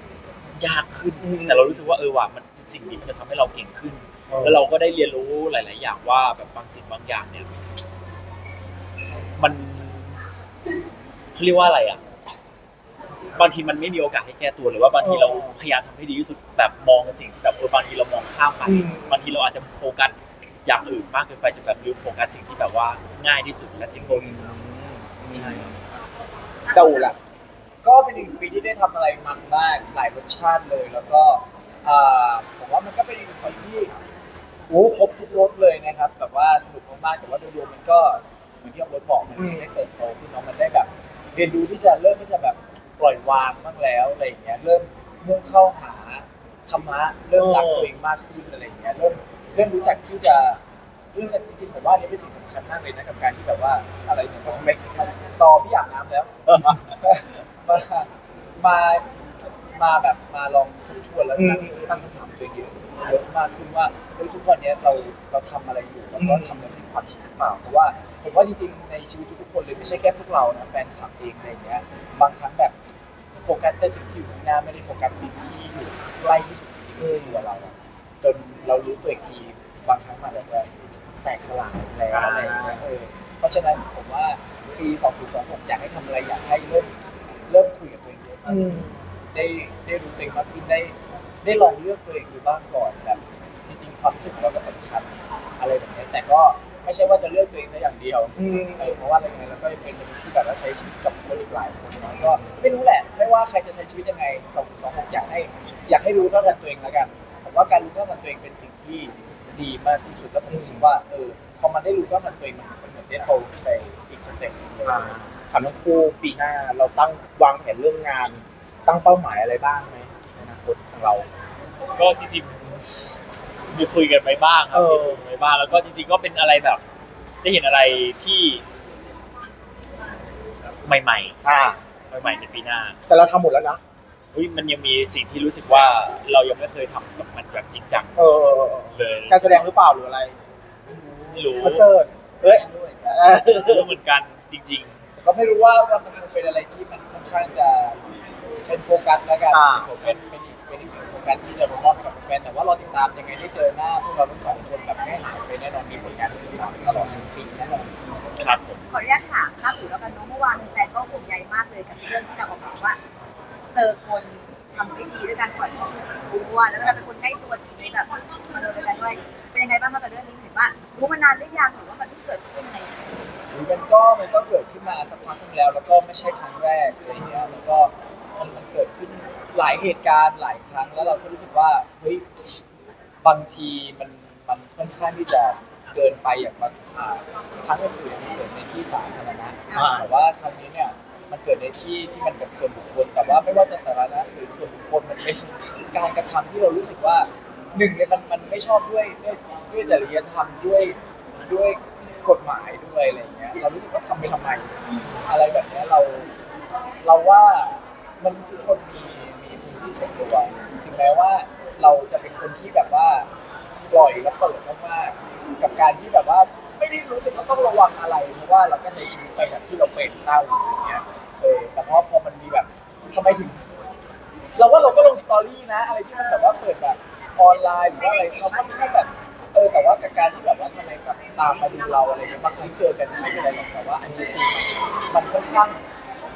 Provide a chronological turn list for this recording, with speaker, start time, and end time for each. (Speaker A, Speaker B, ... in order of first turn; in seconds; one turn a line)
Speaker A: 0.5-7.5
Speaker B: 1.2-1.8
Speaker B: 4.3-4.6
Speaker A: 9.4-10.2
Speaker A: 11.3-12.0
Speaker A: 13.3-24.6
Speaker B: 15.0-15.6
Speaker B: 18.6-19.3
Speaker B: 24.0-25.7
Speaker A: 25.3-25.7
Speaker C: 26.6-27.1
Speaker B: 26.7-27.2
Speaker D: 27.8-33.9
Speaker D: 34.7-50.6
Speaker B: 39.4-39.6
Speaker B: 47.3-47.9
Speaker D: 51.1-59.1
Speaker B: 54.5-54.9
Speaker B: 56.5-56.9
Speaker D: 59.7-72.8
Speaker B: 61.4-62.0
Speaker B: 66.1-66.7
Speaker D: 73.3-80.7
Speaker B: 77.0-77.4
Speaker D: 81.2-87.0
Speaker B: 82.1-82.8
Speaker D: 87.5-115.2
Speaker B: 88.5-88.9
Speaker B: 98.4-99.0
Speaker B: 110.5-110.9
Speaker B: 114.8-121.3
Speaker A: 122.0-123.0
Speaker A: 123.7-126.8
Speaker B: 124.7-125.2
Speaker A: 127.4-128.6
Speaker A: 130.8-131.3
Speaker B: 131.4-131.8
Speaker A: 132.1-133.0
Speaker B: 133.1-133.8
Speaker A: 134.3-138.2
Speaker B: 138.2-140.4
Speaker A: 138.9-139.7
Speaker D: 140.8-141.8
Speaker A: 141.3-141.9
Speaker B: 141.6-143.9
Speaker D: 142.4-143.6
Speaker A: 143.3-145.0
Speaker D: 145.2-148.1
Speaker D: 148.6-157.9
Speaker B: 149.5-149.9
Speaker A: 149.9-150.1
Speaker B: 156.9-157.2
Speaker A: 158.4-158.8
Speaker C: 158.9-163.0
Speaker C: 163.7-173.1
Speaker D: 173.5-182.3
Speaker D: 183.2-206.3
Speaker C: 189.7-190.0
Speaker B: 189.7-190.1
Speaker D: 207.0-213.3
Speaker D: 213.9-223.6
Speaker D: 224.6-235.8
Speaker C: 227.7-229.1